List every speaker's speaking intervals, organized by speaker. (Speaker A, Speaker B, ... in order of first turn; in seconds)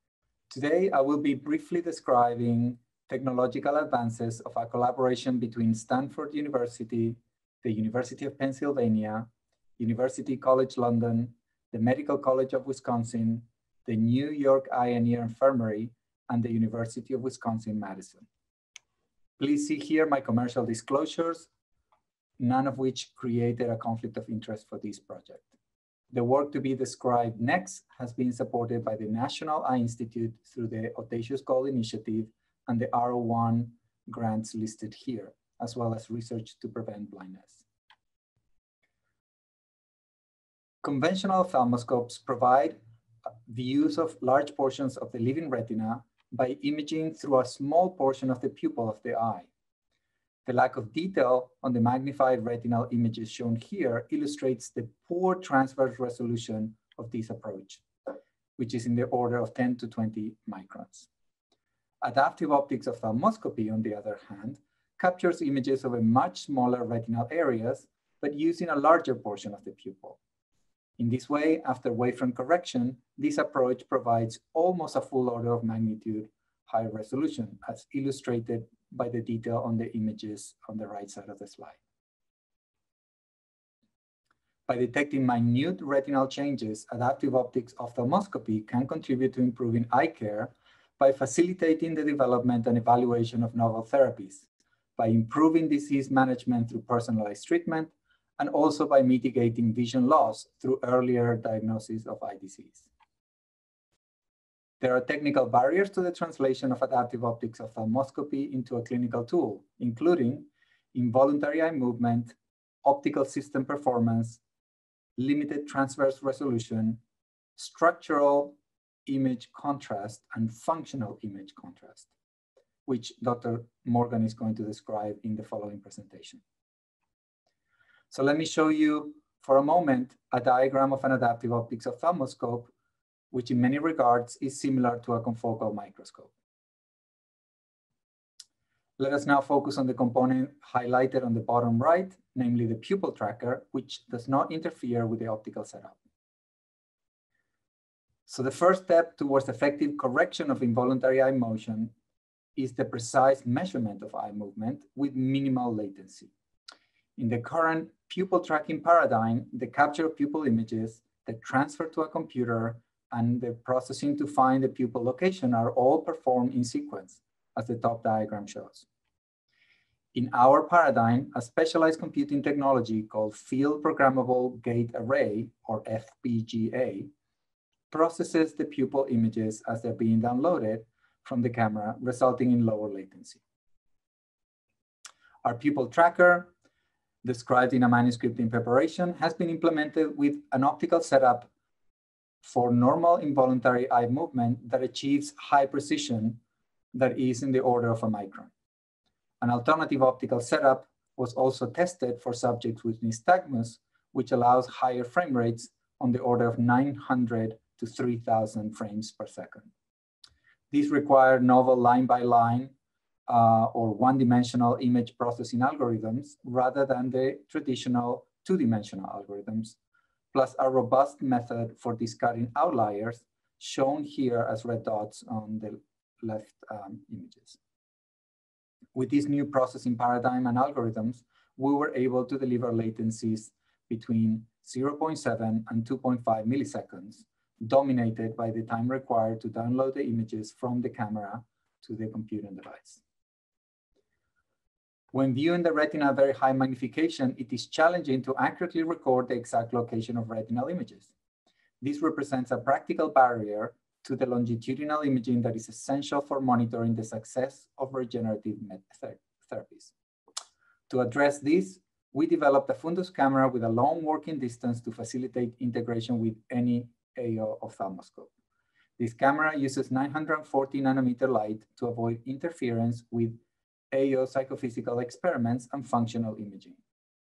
Speaker A: 0.5-18.2, 19.4-21.5, 22.4-25.5, 26.1-37.6, 40.8-42.8, 43.5-49.5, 50.5-57.8, 58.6-61.1, 62.0-70.2, 71.0-81.8, 84.7-94.4, 95.0-102.9, 104.8-114.4, 115.2-117.0, 117.6-122.1, 122.8-126.4, 128.1-132.7, 133.3-136.3, 139.0-146.0, 148.3-151.9, 152.6-156.3, 157.2-168.8, 170.1-177.1, 177.9-183.4, 185.4-186.5, 187.2-191.5, 192.4-196.4, 196.9-198.5, 199.4-209.7, 210.7-212.7, 213.3-219.8, 220.3-227.6, 228.9-243.0, 245.1-251.1, 251.8-259.9, 260.9-268.3, 269.0-273.4, 273.9-276.8